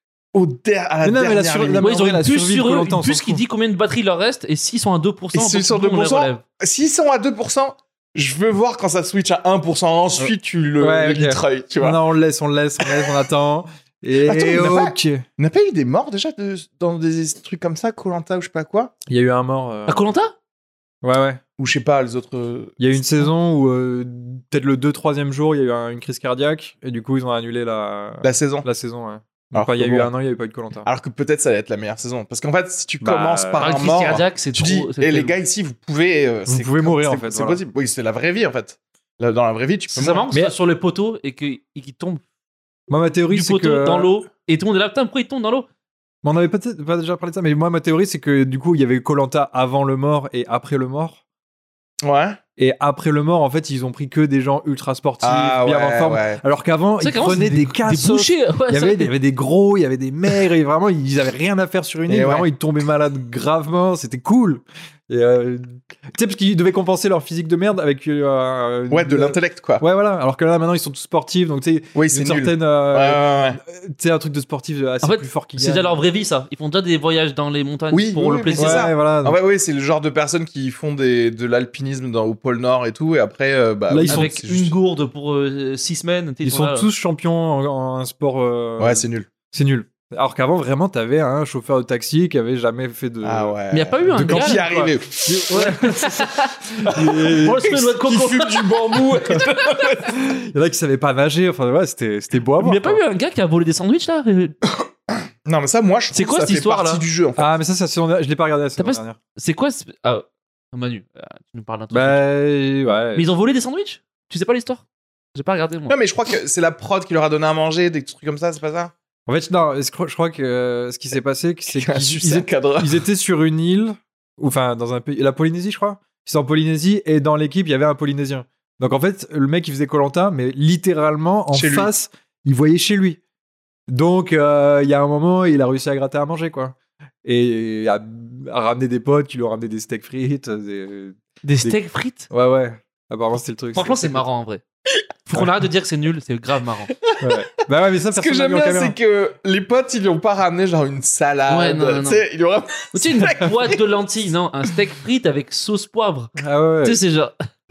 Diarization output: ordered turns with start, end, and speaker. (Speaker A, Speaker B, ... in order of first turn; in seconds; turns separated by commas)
Speaker A: 0.3-1.9, Speaker B: 1.0-3.4, Speaker C: 1.8-6.4, Speaker A: 5.3-12.0, Speaker B: 10.2-15.3, Speaker A: 14.2-18.9, Speaker B: 19.1-20.1, Speaker C: 19.9-20.3, Speaker B: 21.0-21.4, Speaker A: 21.6-23.3, Speaker B: 22.8-30.9, Speaker A: 28.2-28.7, Speaker A: 29.5-30.1, Speaker A: 30.8-40.3, Speaker B: 33.0-33.7, Speaker C: 33.6-35.3, Speaker B: 36.5-37.6, Speaker C: 39.9-42.2, Speaker B: 42.9-44.1, Speaker C: 43.3-45.7, Speaker B: 46.2-51.2, Speaker A: 52.0-52.4, Speaker B: 52.6-76.0, Speaker A: 55.2-56.4, Speaker C: 57.0-59.1, Speaker A: 62.1-62.5, Speaker A: 68.9-69.8, Speaker A: 71.9-73.6, Speaker C: 75.0-78.9, Speaker A: 77.9-84.7, Speaker B: 78.6-79.4, Speaker B: 83.9-84.4, Speaker C: 84.1-86.9, Speaker B: 86.4-97.7, Speaker A: 88.8-89.3, Speaker A: 93.2-95.7, Speaker C: 93.7-94.7, Speaker C: 95.5-99.1, Speaker A: 96.9-100.2, Speaker B: 100.1-103.0, Speaker C: 102.6-104.6, Speaker A: 104.8-107.5, Speaker C: 106.1-107.0, Speaker B: 107.4-109.2, Speaker C: 108.8-112.2, Speaker B: 111.9-113.3, Speaker C: 113.2-114.8, Speaker C: 115.3-116.0, Speaker A: 115.9-118.9, Speaker B: 119.3-133.2, Speaker A: 121.7-123.0, Speaker A: 131.5-131.9, Speaker B: 133.9-144.2, Speaker C: 141.4-142.3, Speaker C: 143.8-144.6, Speaker C: 145.3-146.9, Speaker A: 147.1-147.3, Speaker B: 147.2-149.0, Speaker A: 148.1-153.9, Speaker C: 151.5-152.2, Speaker C: 152.9-157.3, Speaker B: 156.4-157.0